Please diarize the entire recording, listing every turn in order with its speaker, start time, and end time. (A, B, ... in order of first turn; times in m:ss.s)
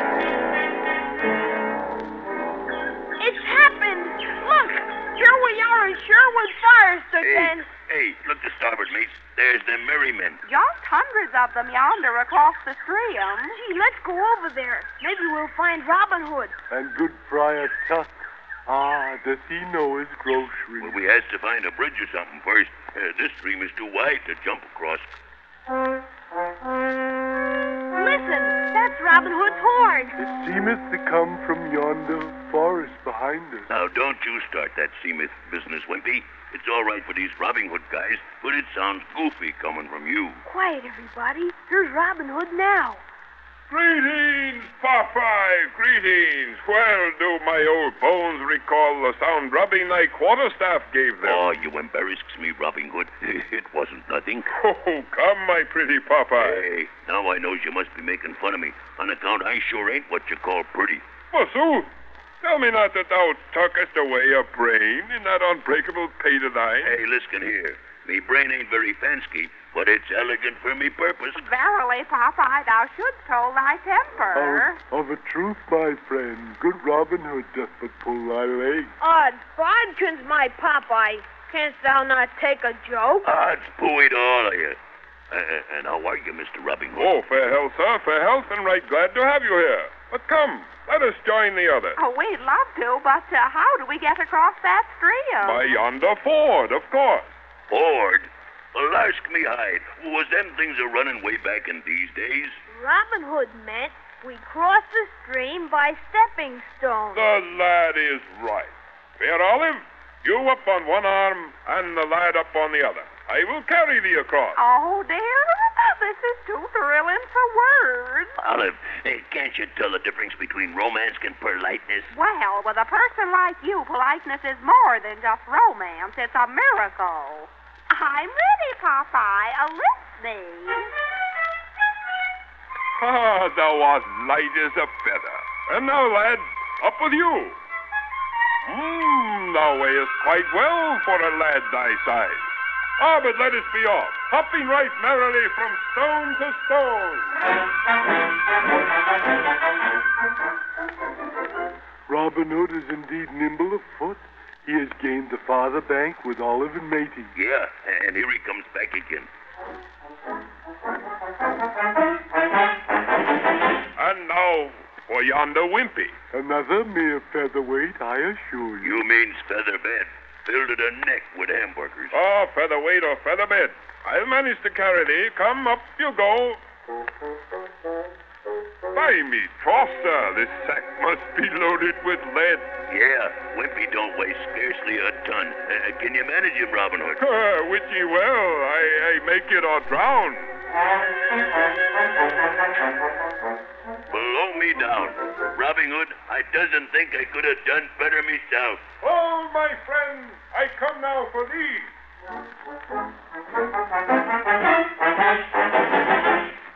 0:03.2-0:07.6 A
0:07.2-0:10.4 B
0:10.4-0:13.6 C
0:13.5-0:16.5 A
0:16.7-0:18.1 D
0:18.7-0:21.0 D
0:20.8-0:25.1 B
0:27.9-0:30.2 A
0:30.2-0:33.7 D
0:33.7-0:40.4 B
0:40.4-0:43.0 A
0:43.7-0:51.6 E
0:51.2-0:54.5 B
0:54.5-0:56.6 E
0:56.4-1:01.0 B
1:01.3-1:01.9 E
1:02.4-1:06.9 E
1:06.8-1:11.4 B
1:11.3-1:14.8 C
1:14.3-1:18.9 D
1:19.0-1:23.3 A
1:23.2-1:24.8 B
1:25.3-1:27.1 B
1:27.0-1:32.0 E
1:32.0-1:35.6 C
1:35.4-1:37.3 E
1:37.7-1:42.6 B
1:42.7-1:47.2 A
1:47.1-1:54.6 E
1:54.6-1:58.3 C
1:58.4-2:02.1 B
2:02.1-2:10.9 C
2:13.0-2:17.6 E
2:18.6-2:22.4 E
2:23.0-2:27.3 E
2:32.1-2:37.3 D
2:37.3-2:39.3 B
2:44.0-2:46.1 E
2:46.3-2:49.0 D
2:48.8-2:52.2 B
2:52.1-2:56.6 E
2:58.9-3:02.7 E
3:02.9-3:07.2 B
3:07.2-3:10.5 E
3:14.1-3:18.8 B
3:19.0-3:21.9 E